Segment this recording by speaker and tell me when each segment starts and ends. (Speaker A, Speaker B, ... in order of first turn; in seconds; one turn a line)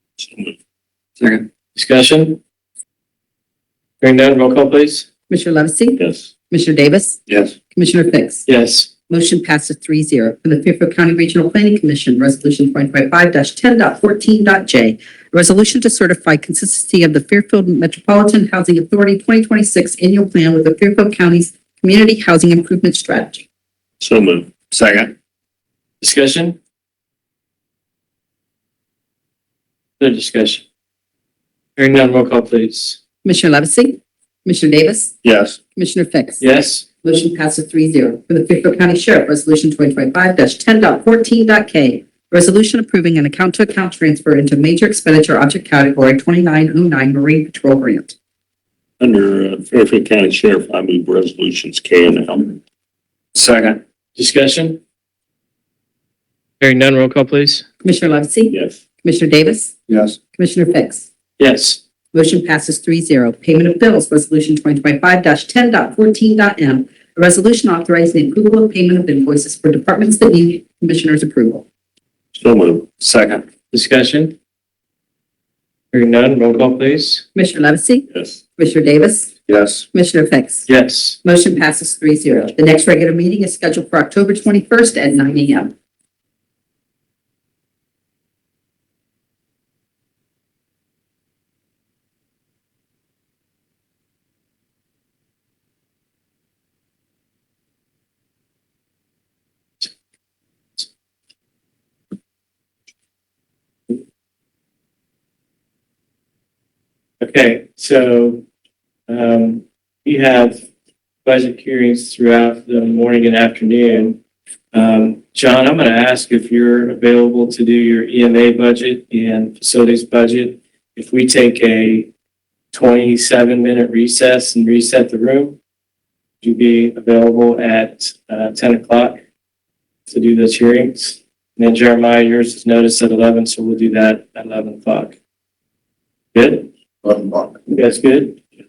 Speaker A: 0.2-0.5
Speaker B: 1.2-1.4
Speaker C: 1.8-2.4
Speaker C: 4.0-5.0
Speaker D: 5.3-7.2
Speaker A: 6.0-6.3
Speaker B: 7.3-7.5
Speaker D: 7.7-8.4
Speaker C: 8.5-8.9
Speaker D: 9.1-23.4
Speaker A: 24.0-24.7
Speaker B: 24.7-25.1
Speaker C: 26.0-26.6
Speaker C: 30.0-30.6
Speaker C: 31.8-33.0
Speaker D: 33.2-35.1
Speaker A: 35.2-35.5
Speaker D: 35.8-36.4
Speaker C: 36.4-36.9
Speaker D: 37.0-48.1
Speaker A: 49.0-52.6
Speaker B: 53.3-53.8
Speaker C: 54.1-54.8
Speaker C: 56.6-57.6
Speaker D: 57.8-59.7
Speaker A: 58.5-58.8
Speaker B: 59.9-60.2
Speaker D: 60.3-61.1
Speaker C: 61.4-61.8
Speaker D: 62.1-71.6
Speaker A: 72.3-72.9
Speaker B: 73.0-73.4
Speaker C: 73.7-74.3
Speaker C: 75.9-77.2
Speaker D: 77.3-79.3
Speaker A: 78.1-78.4
Speaker B: 79.5-79.8
Speaker D: 79.9-80.7
Speaker C: 80.7-81.2
Speaker D: 81.2-85.7
Speaker C: 107.2-108.4
Speaker C: 109.1-110.6
Speaker C: 111.2-114.2
Speaker C: 114.7-122.1
Speaker C: 122.7-125.6
Speaker C: 126.4-129.2
Speaker C: 130.1-135.2
Speaker C: 136.3-136.7
Speaker B: 137.0-137.5
Speaker C: 137.7-138.4